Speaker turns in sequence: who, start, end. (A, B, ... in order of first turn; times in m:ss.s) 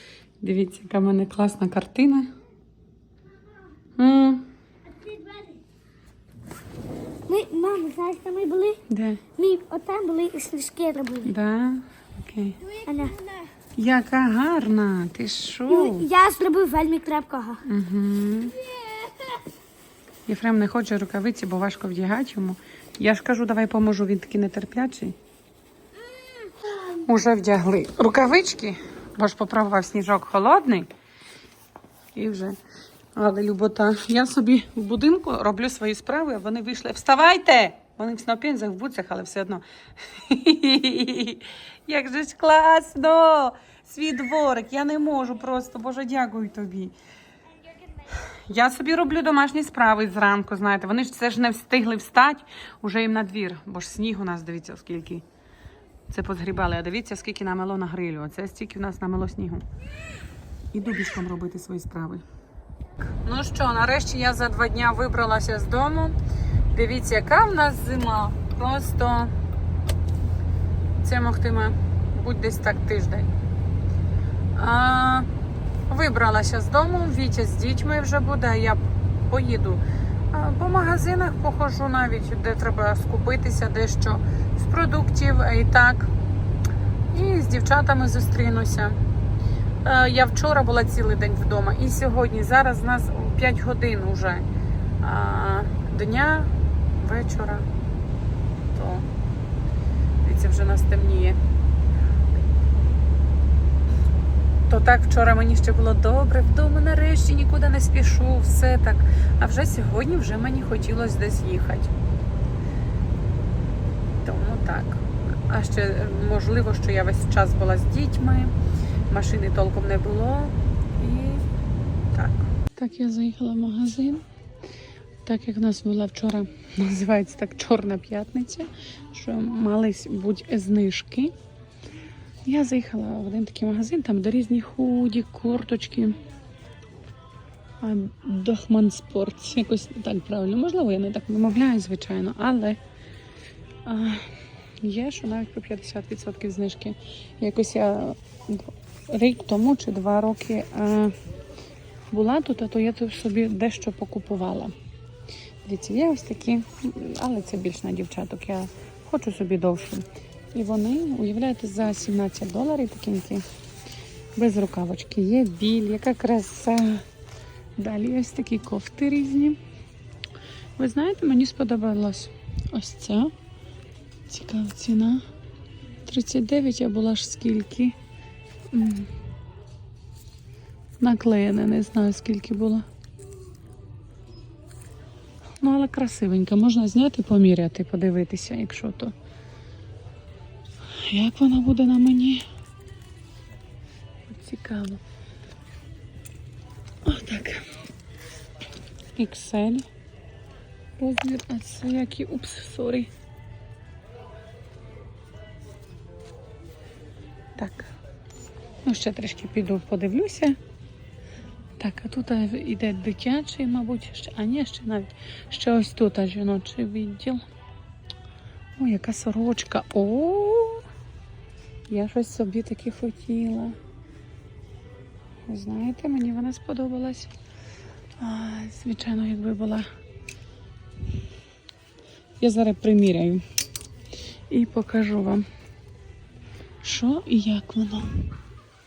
0:00.4-0:02.3 A
0:04.0-0:04.5 A
0:05.1-0:05.4 B
0:07.3-0:08.8 B
0:08.9-0:09.2 A
0:09.4-0:11.3 B
0:11.2-0:12.6 A
0:12.8-0:13.3 B
0:13.8-0:16.1 A
0:15.7-0:17.6 B
0:17.6-0:18.6 A
0:20.3-0:25.2 A
0:26.8-0:30.9 A
0:32.1-0:32.6 A
0:33.2-0:39.6 A
0:40.1-0:46.9 A
0:48.5-0:55.2 A
0:56.1-0:59.6 A
1:00.7-1:02.2 A
1:03.2-1:06.2 A
1:06.7-1:09.3 A
1:11.0-1:13.3 A
1:14.6-1:15.3 A
1:15.9-1:26.1 A
1:27.1-1:29.0 A
1:29.8-1:34.4 A
1:35.0-1:37.6 A
1:38.7-1:39.1 A
1:40.2-1:41.4 A
1:44.7-1:51.9 A
1:54.2-1:58.5 A
1:59.1-2:01.4 A
2:02.1-2:04.2 A
2:05.2-2:11.3 A
2:12.4-2:16.2 A
2:17.8-2:22.8 A
2:23.8-2:24.3 A
2:24.8-2:31.1 A
2:32.1-2:34.7 A
2:35.6-2:43.4 A
2:44.4-2:47.0 A
2:47.8-2:49.6 A
2:50.8-2:53.3 A
2:54.3-2:55.2 A
2:56.0-2:58.0 A
2:58.7-2:59.1 A
3:01.0-3:02.8 A
3:05.6-3:09.1 A
3:10.9-3:12.4 A
3:14.3-3:15.0 A
3:17.0-3:17.6 A
3:19.2-3:19.9 A
3:21.0-3:23.1 A
3:27.6-3:27.9 A
3:28.8-3:30.6 A
3:31.8-3:37.4 A
3:38.8-3:40.8 A
3:41.9-3:43.8 A
3:45.5-3:47.3 A
3:48.2-3:49.8 A
3:52.4-3:53.4 A
3:54.5-3:55.4 A
3:56.8-3:58.2 A